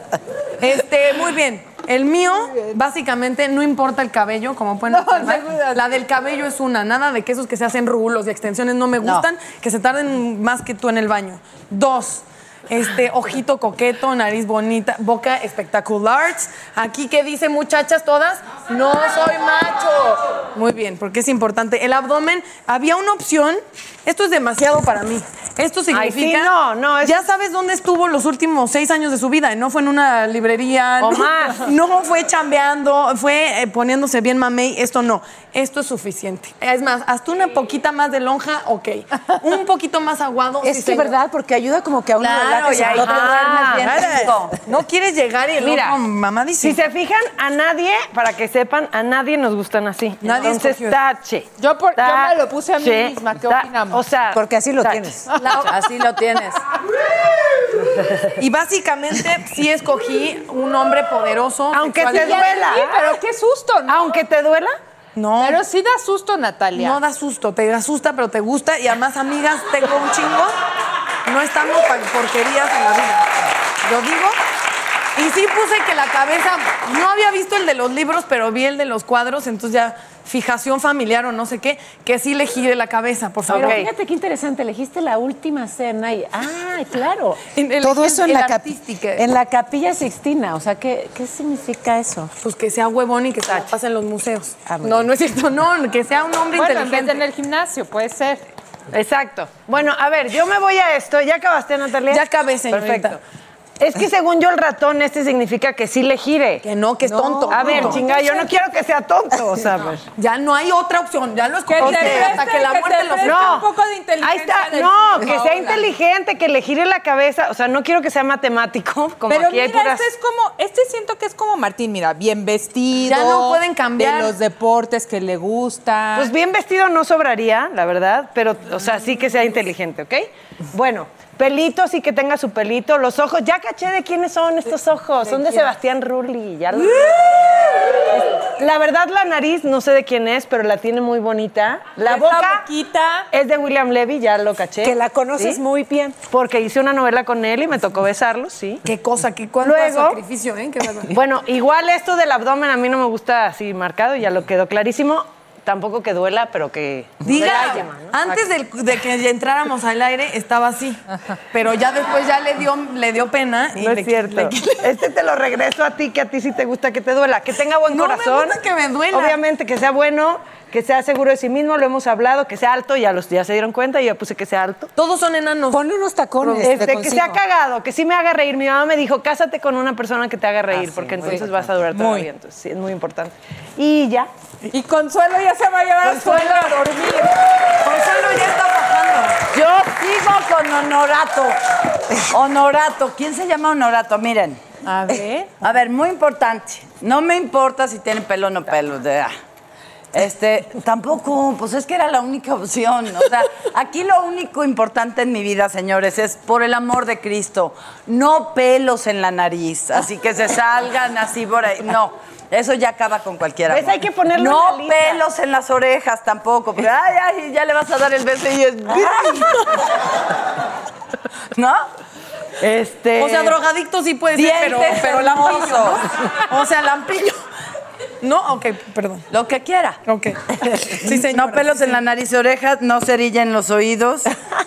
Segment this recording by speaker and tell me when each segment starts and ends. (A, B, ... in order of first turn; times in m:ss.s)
0:00.6-0:41.2 A
0:04.9-0:05.9 B
0:25.9-0:27.3 C
0:31.0-0:31.7 C
0:40.6-0:44.3 D
0:42.2-0:44.6 E
0:43.2-0:43.6 C
0:43.6-0:46.8 A
0:45.6-0:46.0 C
0:46.6-0:55.1 C
0:50.2-0:51.0 A
0:51.6-0:54.0 B
0:54.3-0:55.3 D
0:55.4-0:55.8 A
0:55.4-0:56.6 E
0:58.4-1:02.6 A
1:01.7-1:03.2 C
1:02.1-1:04.0 B
1:03.9-1:04.8 C
1:05.2-1:05.6 A
1:05.4-1:07.0 B
1:06.8-1:10.5 A
1:11.3-1:14.4 A
1:15.2-1:23.9 A
1:23.5-1:32.3 D
1:23.5-1:23.8 C
1:27.5-1:29.3 A
1:32.4-1:37.2 A
1:34.7-1:35.1 D
1:36.5-1:38.4 B
1:38.9-1:43.2 C
1:42.1-1:43.2 A
1:43.8-1:46.6 C
1:46.6-1:48.5 A
1:47.0-1:48.1 D
1:47.5-1:50.1 C
1:50.2-1:53.6 A
1:51.7-1:55.9 B
1:51.8-1:52.3 C
1:53.2-1:53.7 C
1:54.2-2:00.0 C
1:59.3-2:06.3 B
2:03.0-2:04.4 A
2:06.2-2:22.7 C
2:22.0-2:23.3 B
2:23.3-2:25.6 C
2:24.8-2:26.2 D
2:26.3-2:28.8 C
2:28.8-2:31.1 A
2:29.6-2:30.2 C
2:31.1-2:38.2 C
2:37.2-2:41.0 A
2:41.5-2:44.9 A
2:43.8-2:48.6 C
2:47.9-2:49.4 A
2:49.1-2:54.9 C
2:55.0-2:55.9 A
2:55.7-2:57.4 D
2:56.4-2:56.8 A
2:56.6-3:04.3 C
2:56.7-2:57.3 B
3:01.2-3:02.3 B
3:04.7-3:07.3 B
3:06.2-3:06.8 A
3:07.8-3:09.4 A
3:09.5-3:11.6 E
3:12.3-3:14.6 E
3:14.9-3:15.5 B
3:15.6-3:19.3 E
3:20.1-3:39.7 E
3:33.7-3:35.2 C
3:41.6-3:41.8 E
3:42.6-3:43.6 E
3:43.2-3:47.4 A
3:44.3-3:46.1 E
3:48.2-3:49.3 A
3:49.3-3:50.0 E
3:50.1-3:50.4 A
3:50.9-3:52.0 A
3:51.0-3:54.3 E